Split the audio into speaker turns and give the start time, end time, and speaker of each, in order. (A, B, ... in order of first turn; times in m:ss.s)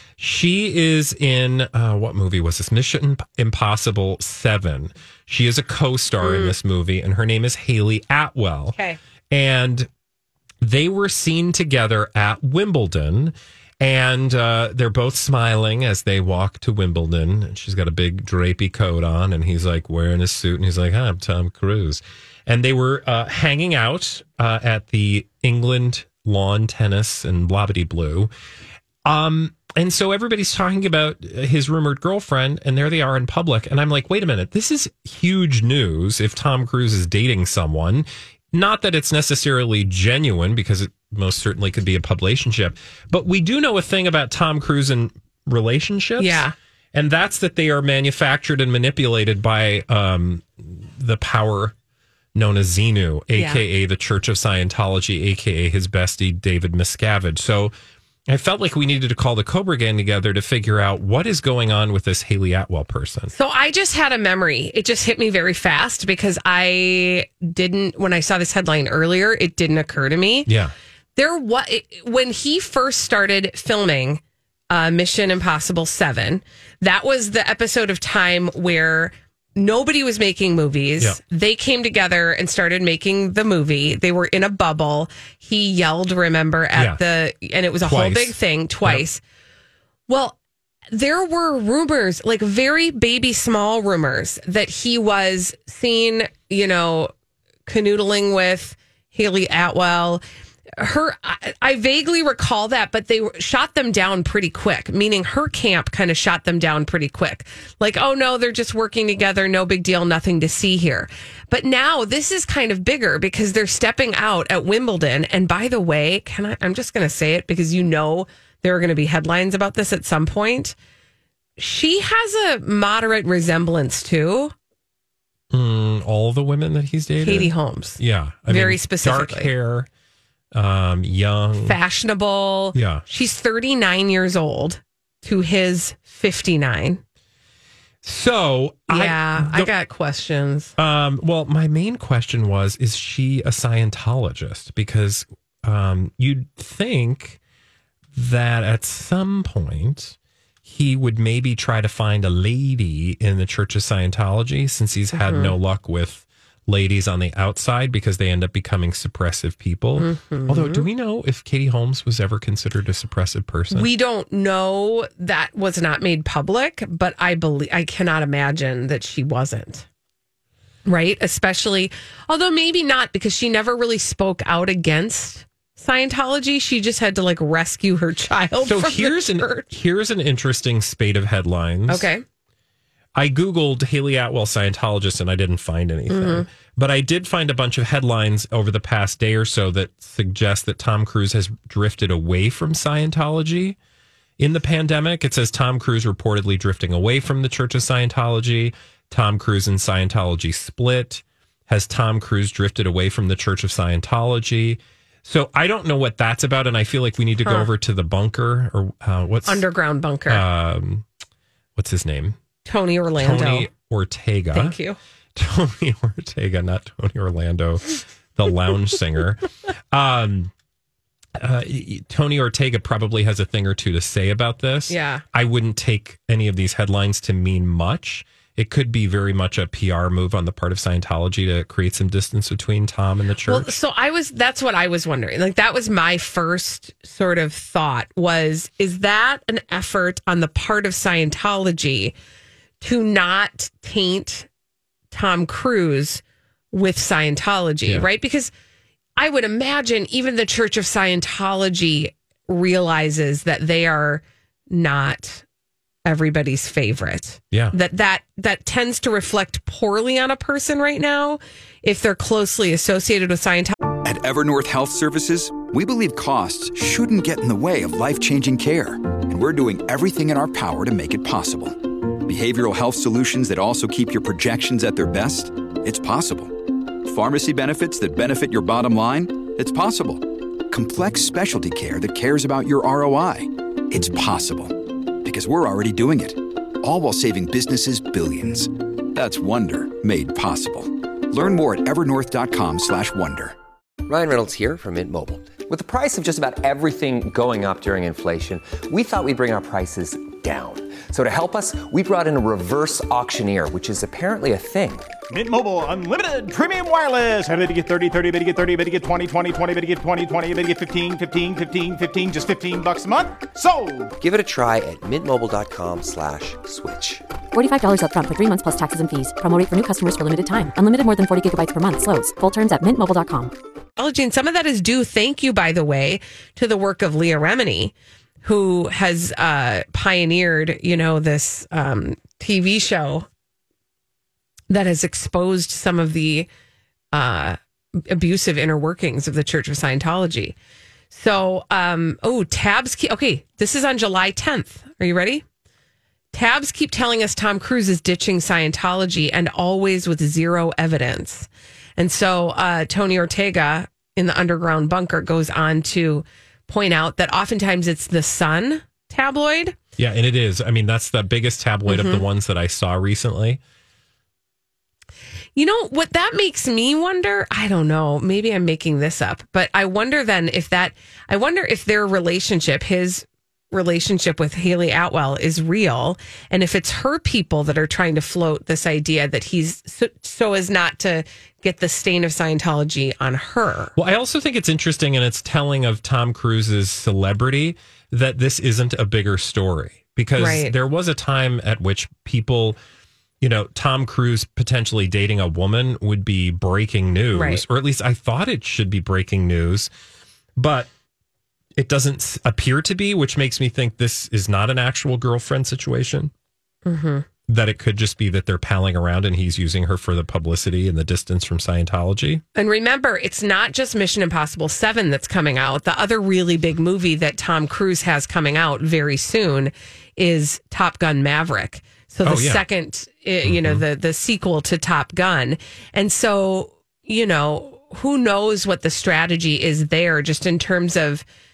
0:00.2-0:08.8 A
0:06.2-0:06.5 B
0:09.3-0:09.9 A
0:10.6-0:28.3 A
0:29.0-0:51.7 A
0:46.2-0:46.5 B
0:52.3-0:57.7 A
0:53.4-0:53.6 B
0:58.3-1:03.3 A
1:03.3-1:10.5 B
1:10.4-1:10.7 A
1:11.2-1:29.2 B
1:26.7-1:27.0 A
1:27.8-1:29.0 A
1:30.1-1:30.4 B
1:30.9-1:37.1 B
1:37.6-1:40.2 B
1:40.8-2:00.7 B
2:01.6-2:04.5 B
2:05.5-2:09.9 A
2:07.2-2:09.5 B
2:10.5-2:11.8 A
2:11.6-2:17.0 B
2:12.7-2:13.0 A
2:18.0-2:19.7 A
2:18.9-2:20.7 B
2:20.8-2:27.4 A
2:28.1-2:43.9 A
2:35.1-2:35.5 B
2:40.0-2:40.8 B
2:43.7-2:49.8 B
2:50.8-2:59.7 B
2:58.6-3:02.1 A
3:01.9-3:02.2 B
3:03.1-3:13.8 A
3:06.1-3:06.5 B
3:14.4-3:29.6 A
3:27.4-3:27.7 B
3:29.5-3:30.4 B
3:30.3-3:31.0 A
3:31.8-3:32.4 A
3:32.6-3:33.7 B
3:33.2-3:34.8 A
3:34.5-3:35.0 B
3:35.3-3:40.5 A
3:41.4-3:53.7 A
3:44.9-3:45.2 B
3:53.5-4:02.1 B
4:02.8-4:04.5 B
4:05.1-4:08.5 B
4:09.2-4:15.4 B
4:16.0-4:23.7 B
4:17.5-4:17.8 A
4:24.0-4:53.5 C
4:54.0-5:05.1 D
5:05.3-5:14.1 E
5:14.2-5:17.2 D
5:17.5-5:23.5 F
5:24.0-5:33.3 B
5:34.7-5:36.5 B
5:37.1-5:40.5 B
5:41.1-5:45.4 B
5:46.3-5:59.8 B
6:00.0-6:03.6 A
6:01.9-6:02.2 B
6:05.5-6:23.9 B
6:24.0-6:32.8 A
6:30.4-6:30.7 B
6:33.4-6:39.9 A
6:37.3-6:37.6 B
6:40.6-6:40.9 A
6:41.8-6:46.3 A
6:46.8-6:47.3 B
6:47.5-6:52.4 A
6:52.5-7:11.2 B
7:02.2-7:02.6 A
7:03.4-7:03.8 A